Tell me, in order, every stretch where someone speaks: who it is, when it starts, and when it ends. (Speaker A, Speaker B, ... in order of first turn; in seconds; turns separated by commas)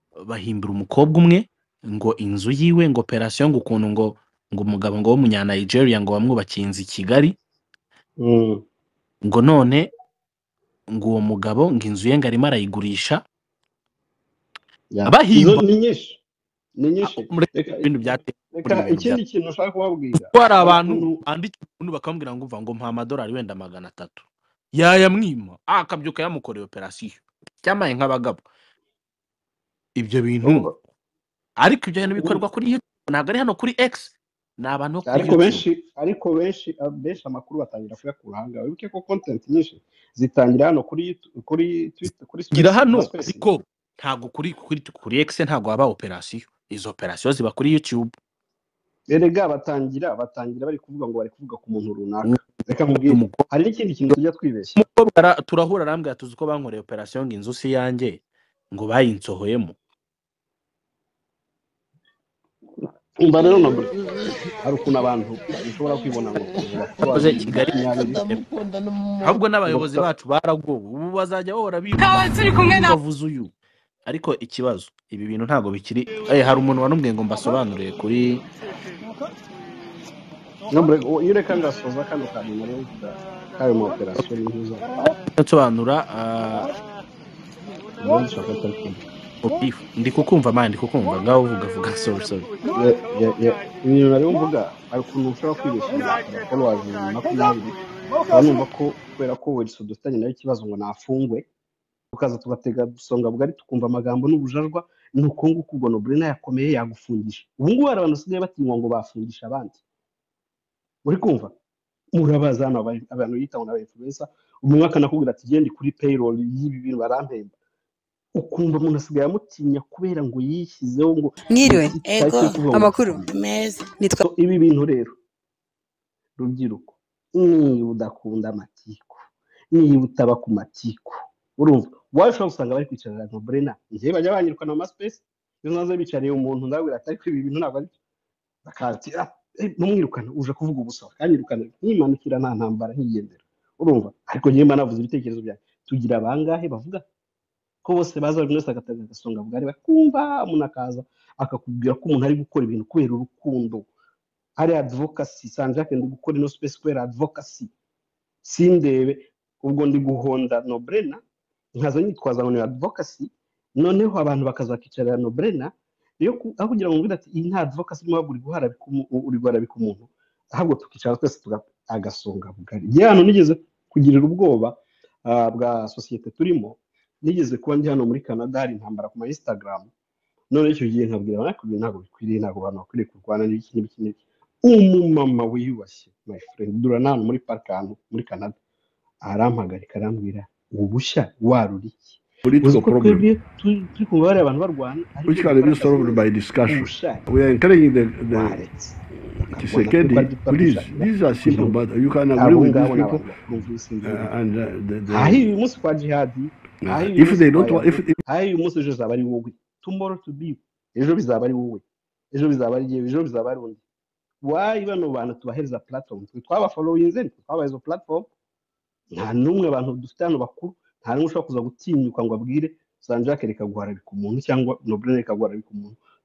Speaker A: 0.2-7.3, Speaker B: 8.2-8.6, Speaker A: 9.2-9.9, Speaker A: 10.9-13.2, Speaker B: 14.9-16.2, Speaker A: 15.1-15.6, Speaker B: 16.8-21.2, Speaker A: 17.0-19.2, Speaker A: 20.2-28.4, Speaker A: 29.9-30.7, Speaker B: 30.4-30.7, Speaker A: 31.6-35.6, Speaker B: 35.0-43.5, Speaker A: 42.5-48.1, Speaker B: 49.1-54.8, Speaker A: 52.2-53.4, Speaker A: 54.7-58.2, Speaker A: 58.7-59.8, Speaker B: 63.2-63.9, Speaker B: 64.5-68.3, Speaker A: 67.1-68.4, Speaker A: 69.2-73.5, Speaker B: 69.6-70.0, Speaker C: 72.1-72.7, Speaker A: 74.0-78.4, Speaker B: 80.7-84.8, Speaker A: 85.4-86.7, Speaker B: 88.0-89.0, Speaker A: 89.4-92.5, Speaker B: 92.7-97.7, Speaker B: 98.3-101.5, Speaker B: 102.1-109.8, Speaker B: 111.0-111.5, Speaker B: 112.1-117.5, Speaker B: 118.3-123.3, Speaker C: 121.5-124.2, Speaker B: 124.2-125.2, Speaker B: 126.4-129.2, Speaker B: 129.7-137.9, Speaker B: 138.6-147.0, Speaker B: 147.8-153.9, Speaker B: 154.6-157.7, Speaker B: 158.4-161.2, Speaker B: 161.8-179.9, Speaker B: 180.5-188.6, Speaker B: 189.2-197.3, Speaker D: 192.4-193.2, Speaker D: 195.2-198.6, Speaker B: 198.3-198.9, Speaker B: 199.5-201.8, Speaker D: 199.6-203.2, Speaker B: 202.3-204.3, Speaker D: 204.0-205.5, Speaker B: 205.1-213.8, Speaker D: 206.8-208.2, Speaker B: 214.4-218.3, Speaker B: 219.1-226.0